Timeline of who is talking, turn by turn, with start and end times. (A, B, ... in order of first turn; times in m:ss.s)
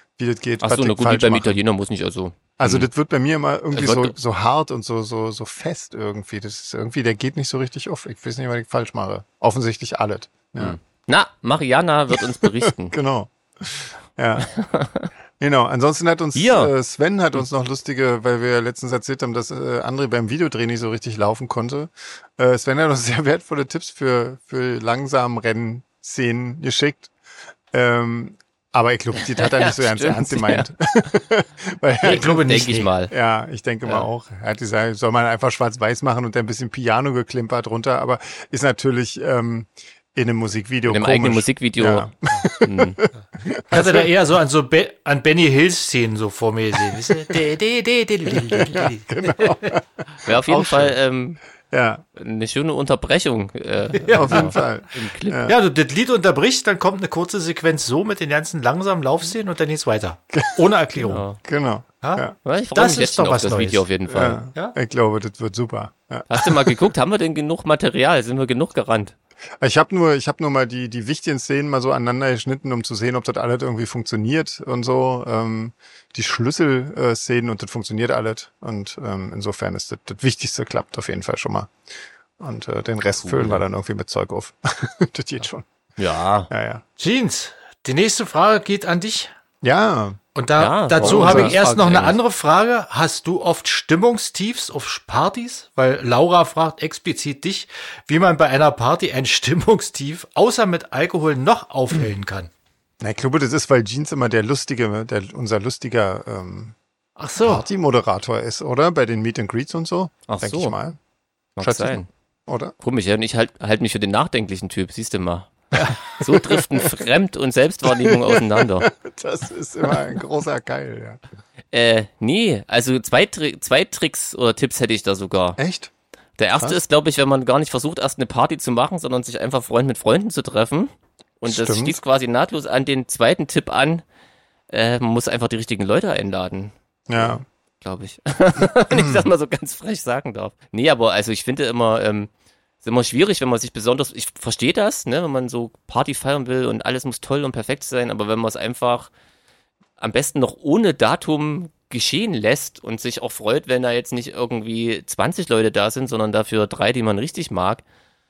0:00.2-0:01.6 A
0:00.6-0:02.9 B
0:02.6-0:10.8 A
0:03.7-0:04.1 B
0:10.6-0:13.0 B
0:12.1-0:14.5 A
0:14.4-0:15.1 B
0:15.4-0:27.1 A
0:16.4-0:16.7 B
0:27.7-0:44.1 A
0:29.2-0:30.7 B
0:32.0-0:32.9 C
0:32.2-0:33.1 B
0:40.9-0:43.0 B
0:43.7-0:49.8 C
0:46.8-0:47.4 A
0:48.3-0:51.0 A
0:50.2-0:51.4 B
0:51.7-0:52.0 A
0:52.2-0:55.5 B
0:54.0-0:54.6 C
0:54.1-0:55.6 A
0:55.5-1:01.2 C
1:00.3-1:00.7 A
1:01.0-1:01.4 B
1:01.4-1:02.4 A
1:02.0-1:03.8 C
1:02.4-1:04.4 B
1:04.1-1:06.9 A
1:06.3-1:09.2 B
1:09.6-1:21.7 A
1:22.4-1:25.7 A
1:23.2-1:23.6 B
1:26.0-1:26.5 B
1:26.5-1:26.8 A
1:27.0-1:29.3 C
1:29.6-1:30.2 A
1:30.4-1:42.5 C
1:30.6-1:32.2 B
1:31.0-1:31.6 A
1:43.0-1:46.8 A
1:47.2-1:47.6 C
1:47.4-1:51.0 A
1:50.3-1:50.8 B
1:51.6-1:52.1 B
1:51.6-1:52.8 A
1:52.8-1:58.9 B
1:55.8-1:57.0 A
1:57.8-2:01.2 A
2:01.7-2:05.6 B
2:05.6-2:05.9 A
2:06.4-2:14.0 B
2:11.5-2:12.0 A
2:14.7-2:22.3 B
2:17.1-2:17.4 A
2:18.9-2:19.3 A
2:22.8-2:29.1 B
2:30.0-2:37.8 B